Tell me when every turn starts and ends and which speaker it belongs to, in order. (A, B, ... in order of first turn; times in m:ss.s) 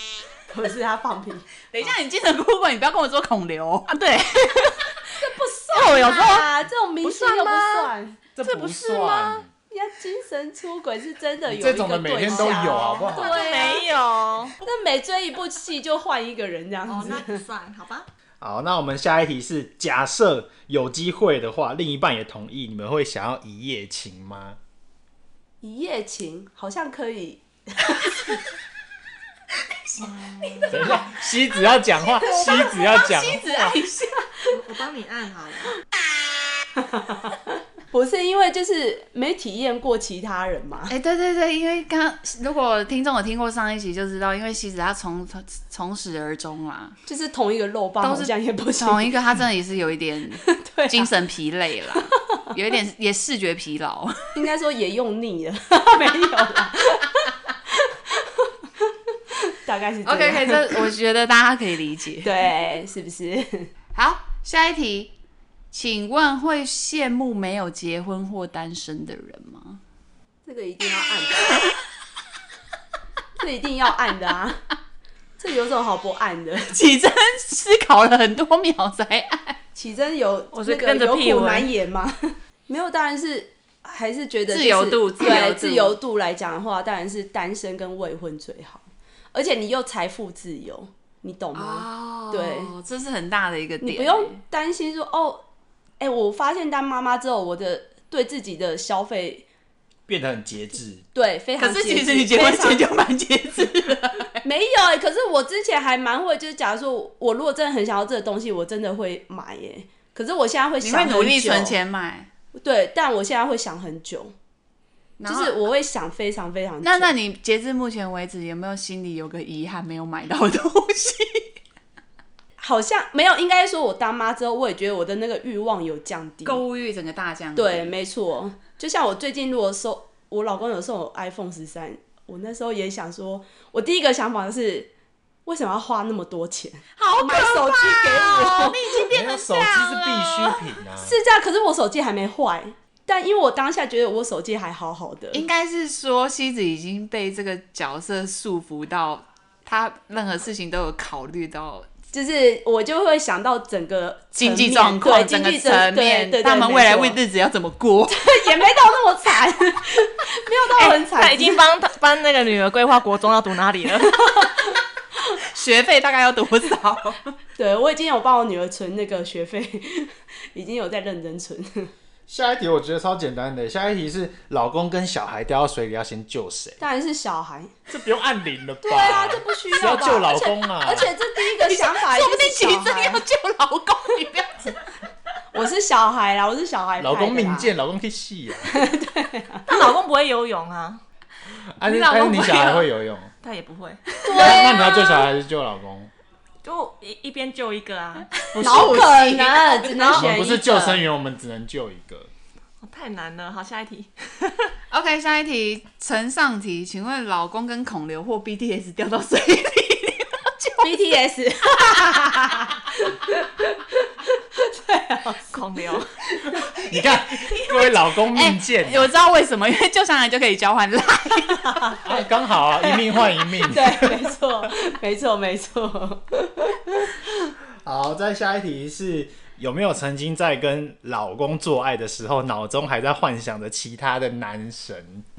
0:00.5-0:01.5 A
0:01.7-0:04.0 B
0:03.9-0:05.1 C
0:05.2-0:08.2 A
0:05.7-0:06.5 C
0:07.0-0:07.9 C
0:08.4-0:09.5 D
0:08.4-0:09.4 C
0:09.7-0:13.9 A
0:11.5-0:13.4 D
0:12.3-0:14.6 C
0:14.6-0:17.4 A
0:16.9-0:18.0 C
0:18.4-0:24.6 D
0:25.6-0:28.4 A
0:29.6-0:34.3 B
0:30.0-0:30.9 C
0:30.7-0:33.7 D
0:34.5-0:35.7 C
0:36.8-0:37.3 A
0:37.9-0:40.9 A
0:40.9-0:47.0 B
0:47.0-0:49.2 A
0:48.0-0:54.3 B
0:50.6-0:51.1 A
0:54.3-0:58.5 A
0:59.3-1:00.9 A
1:00.0-1:02.4 B
1:02.2-1:03.7 A
1:03.9-1:05.1 B
1:05.7-1:09.8 B
1:10.4-1:11.7 A
1:13.4-1:14.6 A
1:15.4-1:16.7 A
1:16.7-1:19.6 B
1:19.7-1:32.7 A
1:20.5-1:21.7 C
1:24.5-1:26.0 B
1:31.5-1:34.4 B
1:33.8-1:35.4 A
1:36.0-1:39.4 A
1:40.1-1:41.0 D
1:41.1-1:42.9 A
1:41.6-1:44.4 B
1:44.4-1:51.7 A
1:50.8-1:52.3 B
1:52.5-1:54.3 A
1:55.2-1:55.6 B
1:55.2-1:57.1 A
1:56.8-2:01.5 B
2:02.6-2:06.6 A
2:06.4-2:07.9 B
2:07.5-2:14.9 A
2:15.4-2:19.1 A
2:17.0-2:20.6 B
2:19.1-2:21.2 D
2:21.0-2:25.4 A
2:25.3-2:31.9 B
2:32.1-2:37.2 A
2:34.4-2:38.3 B
2:38.1-2:41.6 A
2:40.8-2:44.3 C
2:45.4-2:47.3 B
2:47.6-2:51.9 A
2:52.3-2:56.8 D
2:56.8-2:57.7 A
2:57.9-3:01.1 D
2:58.8-3:03.2 A
3:01.4-3:04.8 B
3:05.5-3:07.7 A
3:07.0-3:08.8 D
3:08.7-3:09.8 A
3:09.7-3:11.0 C
3:11.8-3:13.3 D
3:11.8-3:12.9 B
3:13.4-3:14.1 C
3:14.2-3:15.2 A
3:14.3-3:16.1 D
3:14.3-3:14.8 B
3:16.6-3:20.2 C
3:18.4-3:19.6 B
3:18.6-3:21.0 A
3:18.7-3:19.0 D
3:20.0-3:22.3 D
3:22.8-3:24.7 C
3:24.9-3:30.9 B
3:30.8-3:35.5 A
3:31.7-3:32.1 B
3:35.5-3:36.1 C
3:36.4-3:39.1 D
3:37.4-3:42.0 B
3:41.6-3:42.0 A
3:42.0-3:44.4 D
3:42.8-3:47.2 A
3:47.8-3:55.2 D